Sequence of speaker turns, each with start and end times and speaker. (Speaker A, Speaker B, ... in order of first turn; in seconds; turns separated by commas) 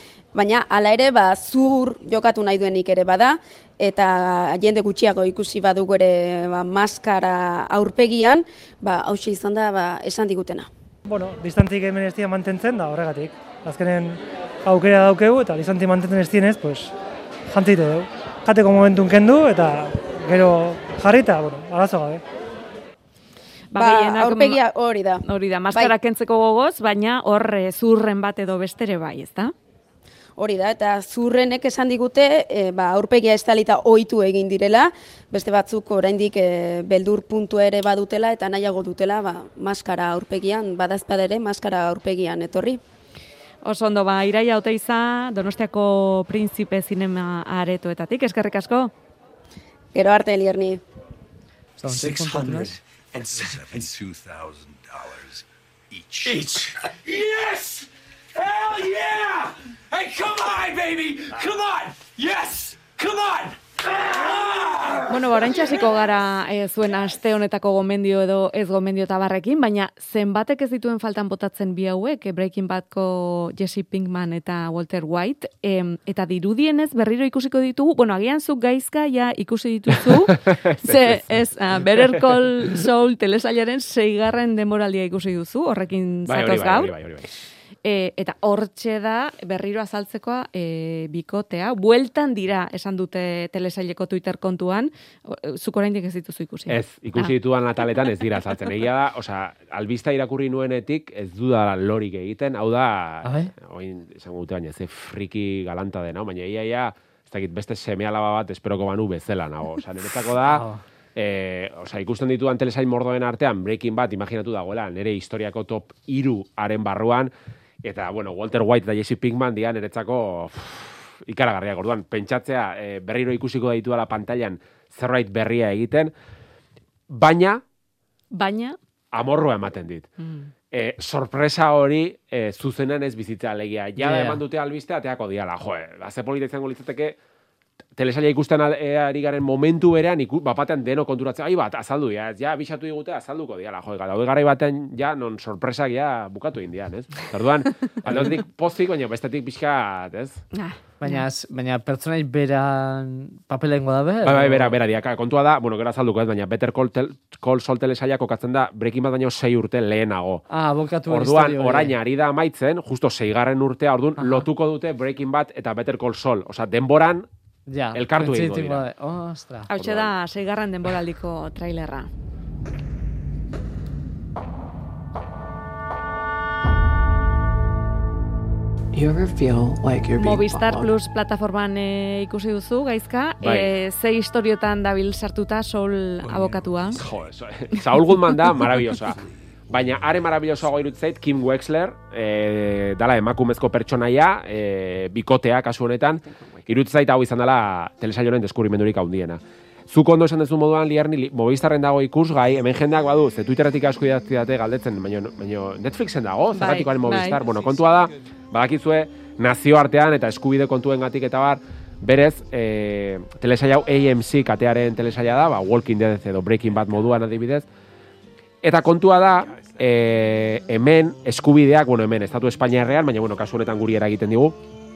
Speaker A: 0.3-10.7, Speaker B: 11.0-16.9, Speaker B: 17.5-22.2, Speaker C: 23.7-24.6, Speaker A: 23.8-25.9, Speaker C: 25.2-29.5, Speaker A: 30.4-42.8, Speaker C: 43.6-48.9, Speaker A: 49.9-50.8, Speaker D: 51.8-52.8, Speaker E: 56.2-57.8, Speaker E: 58.4-65.0, Speaker C: 65.1-86.9, Speaker F: 80.5-81.2, Speaker F: 86.3-87.3, Speaker C: 87.8-97.3, Speaker F: 96.7-110.6, Speaker D: 103.2-103.5, Speaker D: 110.4-110.8, Speaker F: 111.2-117.3, Speaker F: 117.8-126.1, Speaker F: 127.1-127.6, Speaker C: 128.3-128.8, Speaker F: 129.1-130.1, Speaker C: 130.2-130.5, Speaker F: 130.7-137.2, Speaker D: 133.9-134.4, Speaker F: 138.0-150.4, Speaker D: 148.1-148.3, Speaker C: 150.5-151.2, Speaker D: 151.0-154.8, Speaker F: 154.2-160.4, Speaker D: 160.5-161.9, Speaker F: 161.1-167.3, Speaker D: 164.2-164.5, Speaker D: 167.7-169.7, Speaker F: 167.9-168.8, Speaker C: 169.7-172.1, Speaker F: 169.8-170.1, Speaker G: 178.9-180.9, Speaker C: 180.2-187.0, Speaker F: 183.4-183.7, Speaker F: 186.9-217.7, Speaker C: 206.5-207.4, Speaker F: 218.6-224.6